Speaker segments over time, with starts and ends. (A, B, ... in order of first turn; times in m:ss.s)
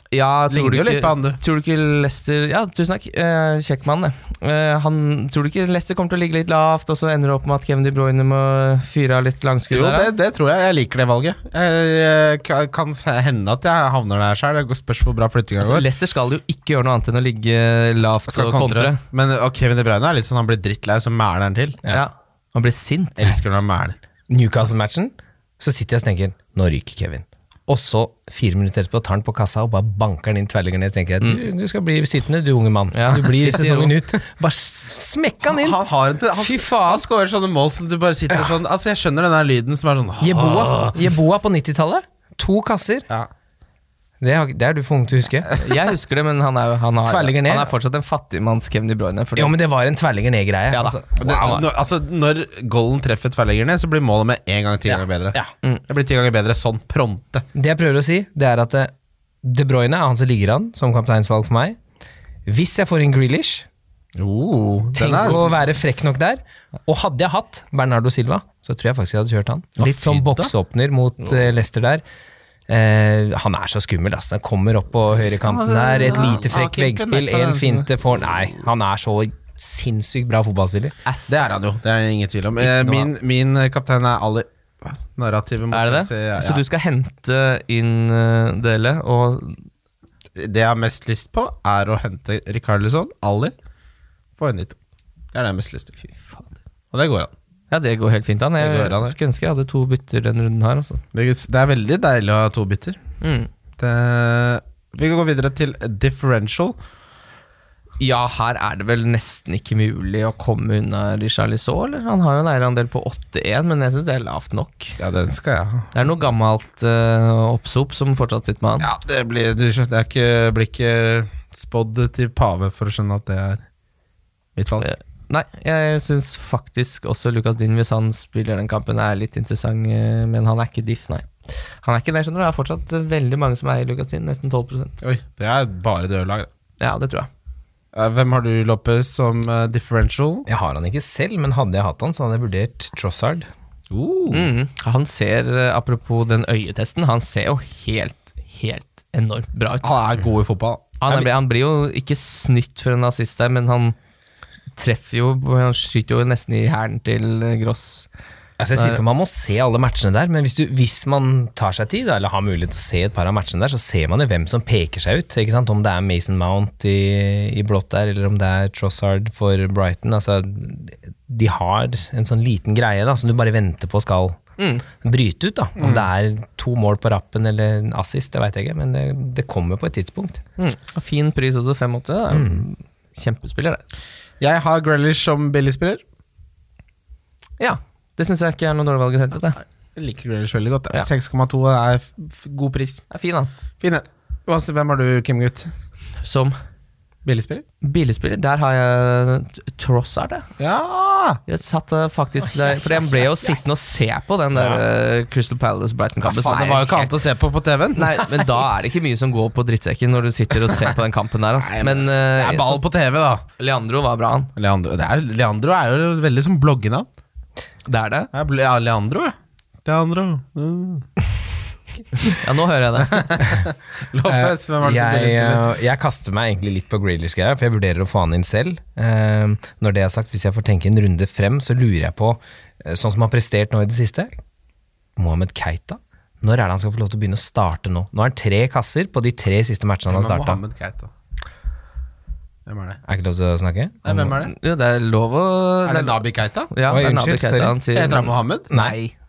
0:00.1-0:10.1 A
0:00.5-0:01.4 B
0:09.7-0:15.9 B
0:15.6-0:19.0 A
0:18.3-0:21.8 B
0:21.9-0:23.4 A
0:23.2-0:24.0 B
0:24.3-0:35.8 C
0:32.9-0:33.9 A
0:35.4-0:41.0 B
0:36.3-0:37.0 C
0:40.2-0:43.1 C
0:44.2-0:45.5 C
0:45.5-0:49.5 A
0:47.0-0:47.7 C
0:49.4-0:51.6 C
0:50.7-0:51.6 A
0:51.2-0:57.4 B
0:54.8-0:55.5 C
0:57.5-0:58.9 C
0:59.4-1:01.8 C
1:02.4-1:03.7 C
1:04.2-1:05.6 B
1:05.0-1:12.0 C
1:09.8-1:10.5 B
1:12.7-1:20.9 C
1:15.1-1:17.9 B
1:21.0-1:21.3 A
1:21.3-1:26.6 B
1:22.6-1:23.1 A
1:25.7-1:29.6 A
1:30.4-1:33.5 B
1:34.4-1:34.8 B
1:35.3-1:36.1 B
1:36.9-1:37.3 B
1:37.7-1:41.0 A
1:38.6-1:39.2 B
1:41.1-1:43.0 B
1:43.2-1:43.5 A
1:43.8-1:46.8 B
1:48.0-1:55.0 A
1:55.0-1:55.9 B
1:55.9-1:58.9 A
1:58.8-2:03.6 B
2:04.6-2:04.8 B
2:04.8-2:11.3 A
2:11.8-2:14.9 A
2:15.0-2:16.5 B
2:16.8-2:17.3 A
2:17.9-2:20.5 B
2:20.5-2:23.5 C
2:23.9-2:24.5 B
2:24.3-2:29.9 A
2:29.8-2:31.0 B
2:31.0-2:34.0 A
2:34.8-2:38.1 A
2:38.6-2:54.4 C
2:38.7-2:39.0 A
2:54.6-2:54.8 A
2:55.0-3:00.4 C
2:55.8-2:56.1 B
3:00.6-3:03.8 A
3:02.3-3:02.6 C
3:04.4-3:06.0 B
3:07.6-3:09.6 A
3:10.0-3:13.0 B
3:13.1-3:13.5 A
3:13.8-3:15.7 B
3:16.2-3:16.6 A
3:17.2-3:17.6 B
3:17.8-3:20.4 A
3:20.6-3:21.4 B
3:21.5-3:27.1 A
3:26.2-3:28.4 B
3:27.9-3:32.8 A
3:31.6-3:33.4 B
3:33.6-3:34.5 A
3:34.6-3:37.1 B
3:37.9-3:38.3 A
3:38.3-3:41.1 B
3:42.2-3:43.2 A
3:43.1-3:45.6 B
3:44.2-3:54.3 C
3:55.2-4:00.6 C
4:00.1-4:01.1 B
4:02.7-4:03.0 B
4:03.1-4:04.4 C
4:04.0-4:04.5 B
4:04.4-4:06.2 A
4:05.8-4:06.7 B
4:06.7-4:09.1 A
4:06.9-4:07.8 C
4:07.9-4:08.7 B
4:08.7-4:09.0 C